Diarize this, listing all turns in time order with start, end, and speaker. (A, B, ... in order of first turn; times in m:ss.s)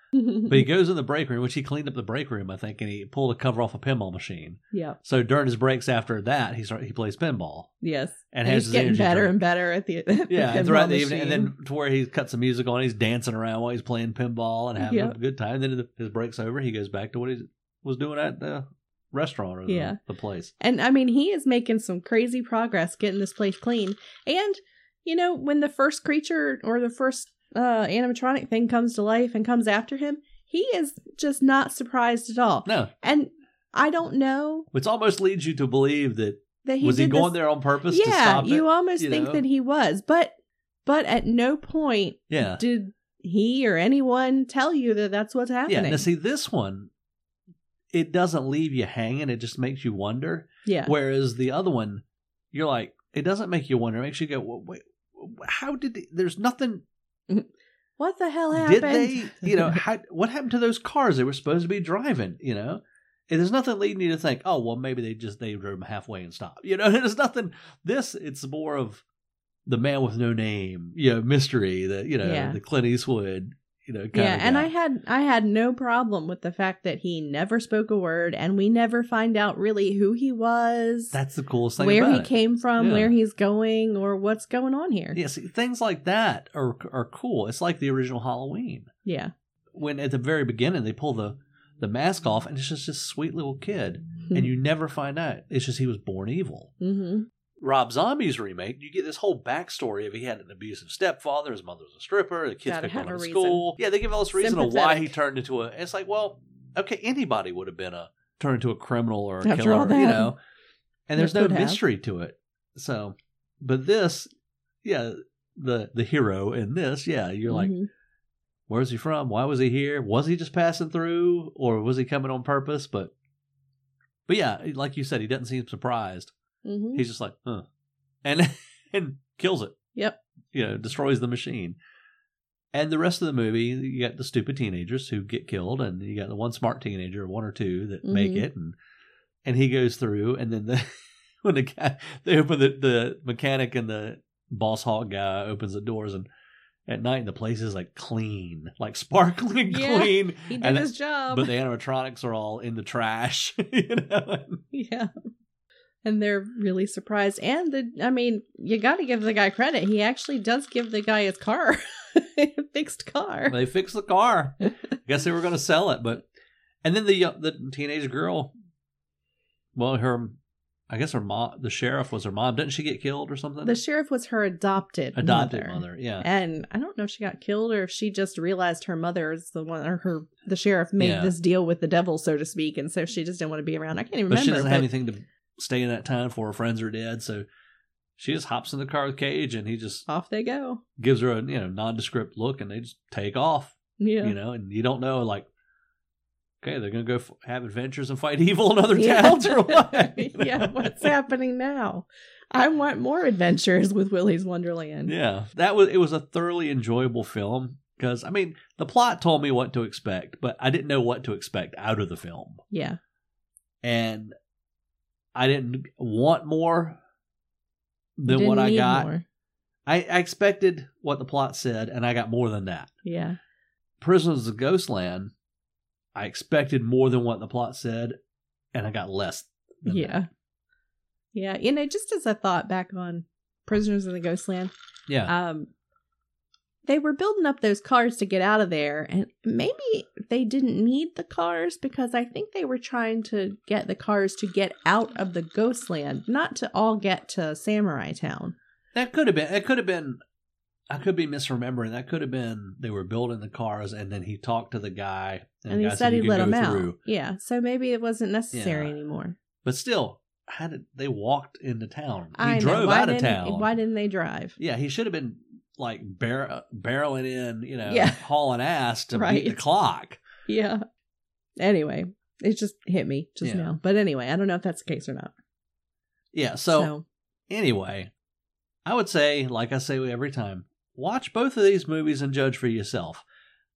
0:00.1-0:00.6 A
0:00.5-0:07.7 B
0:04.7-0:05.0 A
0:07.8-0:11.5 A
0:08.3-0:09.4 B
0:10.3-0:20.5 B
0:14.8-0:15.1 A
0:19.7-0:20.0 A
0:20.6-0:34.7 A
0:32.6-0:32.9 B
0:34.7-0:39.4 B
0:36.6-0:37.4 A
0:37.9-0:40.3 A
0:40.8-0:46.0 A
0:42.3-0:42.6 B
0:45.7-0:46.9 B
0:47.9-0:56.8 B
0:50.6-0:50.9 A
0:57.3-0:59.8 A
0:58.5-1:09.0 B
1:09.6-1:14.7 B
1:12.2-1:12.6 A
1:14.1-1:21.1 A
1:21.1-1:23.1 B
1:21.8-1:25.2 A
1:25.1-1:28.9 B
1:29.0-1:29.3 A
1:29.7-1:36.7 B
1:36.8-1:37.3 A
1:37.6-1:50.4 B
1:42.6-1:43.6 A
1:44.3-1:45.1 A
1:49.4-1:50.3 A
1:51.1-1:54.3 B
1:51.2-1:51.8 A
1:54.8-1:57.7 B
1:57.5-1:57.9 A
1:58.7-2:03.1 B
2:04.3-2:06.3 B
2:06.6-2:07.0 A
2:06.9-2:07.6 B
2:08.2-2:09.8 B
2:10.5-2:11.8 B
2:12.7-2:18.7 B
2:18.0-2:18.4 A
2:19.4-2:26.3 B
2:26.9-2:34.6 B
2:29.7-2:31.5 A
2:34.7-2:35.1 A
2:36.0-2:43.6 A
2:43.5-2:46.3 B
2:46.8-2:48.5 B
2:49.7-2:50.4 B
2:50.9-2:53.8 B
2:53.6-3:04.9 A
2:55.2-2:56.2 B
3:01.0-3:01.3 B
3:04.3-3:07.4 B
3:08.2-3:10.0 B
3:10.1-3:10.8 A
3:11.0-3:15.4 B
3:14.0-3:14.4 A
3:16.6-3:21.1 B
3:18.9-3:25.1 A
3:25.1-3:32.6 B
3:32.7-3:33.0 A
3:33.8-3:34.3 B
3:35.3-3:37.0 B
3:38.2-3:39.1 B
3:38.3-3:39.2 A
3:39.8-3:42.9 B
3:43.0-3:43.4 A
3:44.0-3:45.3 B
3:46.1-3:48.2 B
3:48.7-3:50.2 B
3:49.8-3:50.3 A
3:51.3-3:54.7 A
3:55.1-3:55.3 B
3:55.3-3:55.7 A
3:56.8-4:08.6 A
4:08.9-4:10.2 B
4:10.9-4:17.0 B
4:15.7-4:19.4 A
4:18.5-4:18.9 B
4:19.6-4:23.7 B
4:22.4-4:24.6 A
4:24.6-4:30.2 B
4:27.9-4:28.2 A
4:29.1-4:29.6 A
4:30.5-4:30.8 A
4:31.6-4:35.3 A
4:33.4-4:33.8 B
4:36.3-4:36.9 B
4:36.7-4:37.0 A
4:37.5-4:38.1 B
4:38.8-4:43.2 B